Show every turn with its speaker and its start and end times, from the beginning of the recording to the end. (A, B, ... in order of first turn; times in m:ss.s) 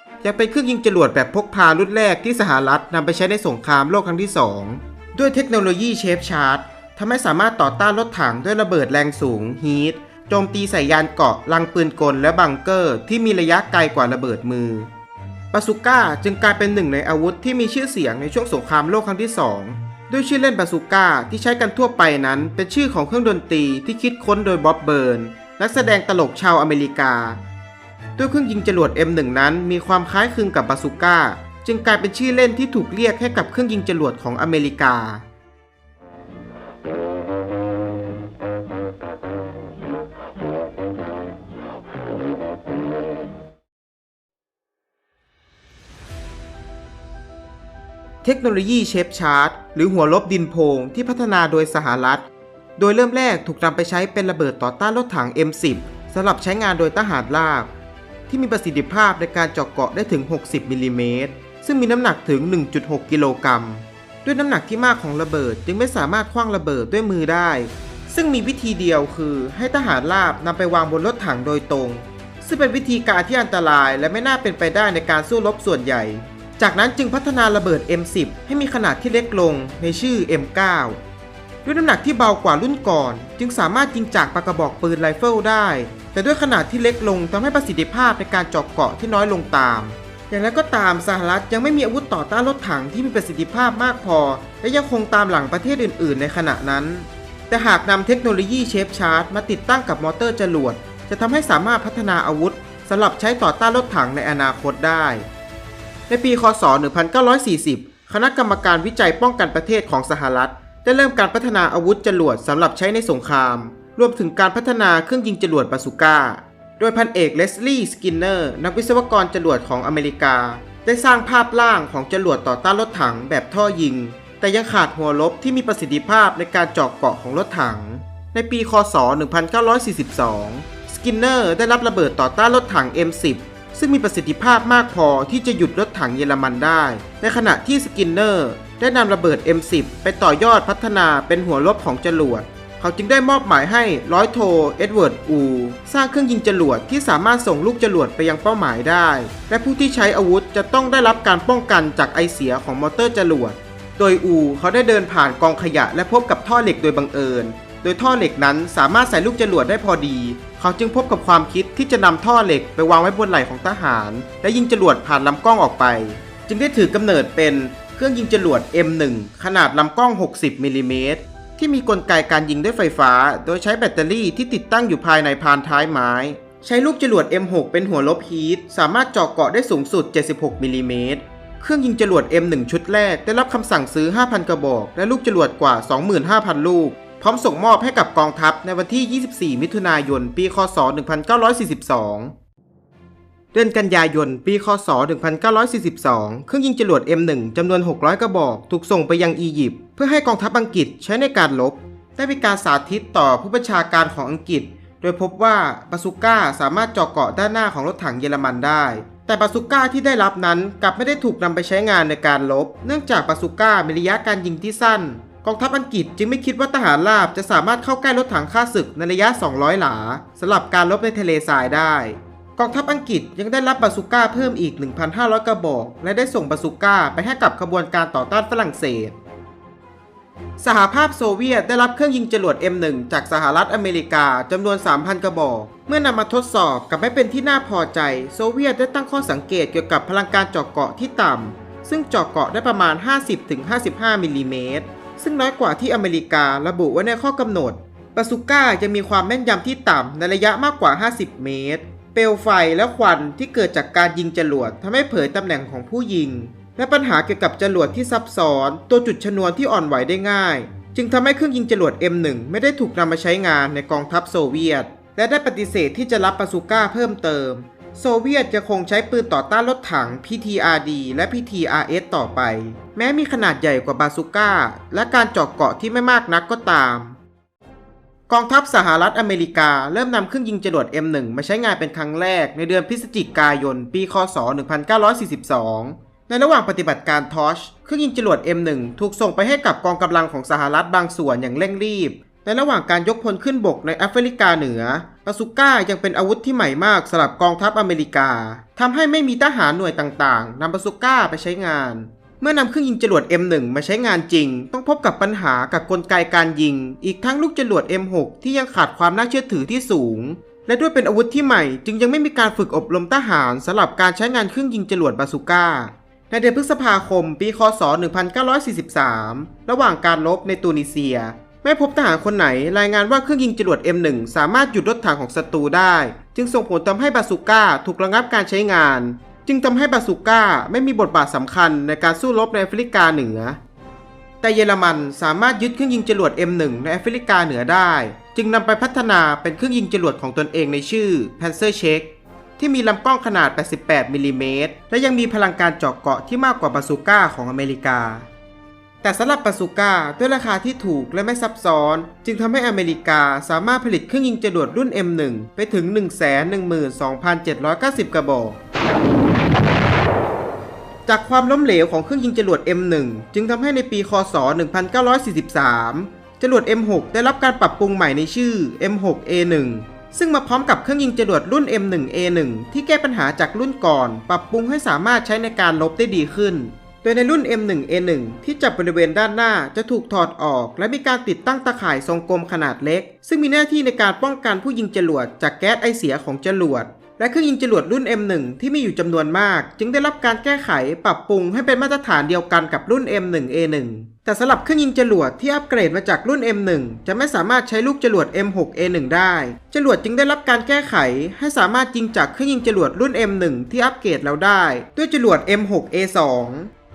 0:00.2-0:14.9 A
0:15.5-0:27.4 A
0:28.2-0:35.2 A
0:48.2-0:52.2 A
0:52.8-0:57.7 A
0:58.3-1:21.0 A
1:21.6-1:45.2 A
1:46.1-3:12.3 A
3:13.5-3:49.1 A
3:50.6-4:37.2 A
4:38.3-5:33.6 A
5:34.4-5:48.3 A
5:49.0-5:58.6 A
6:01.0-6:46.7 A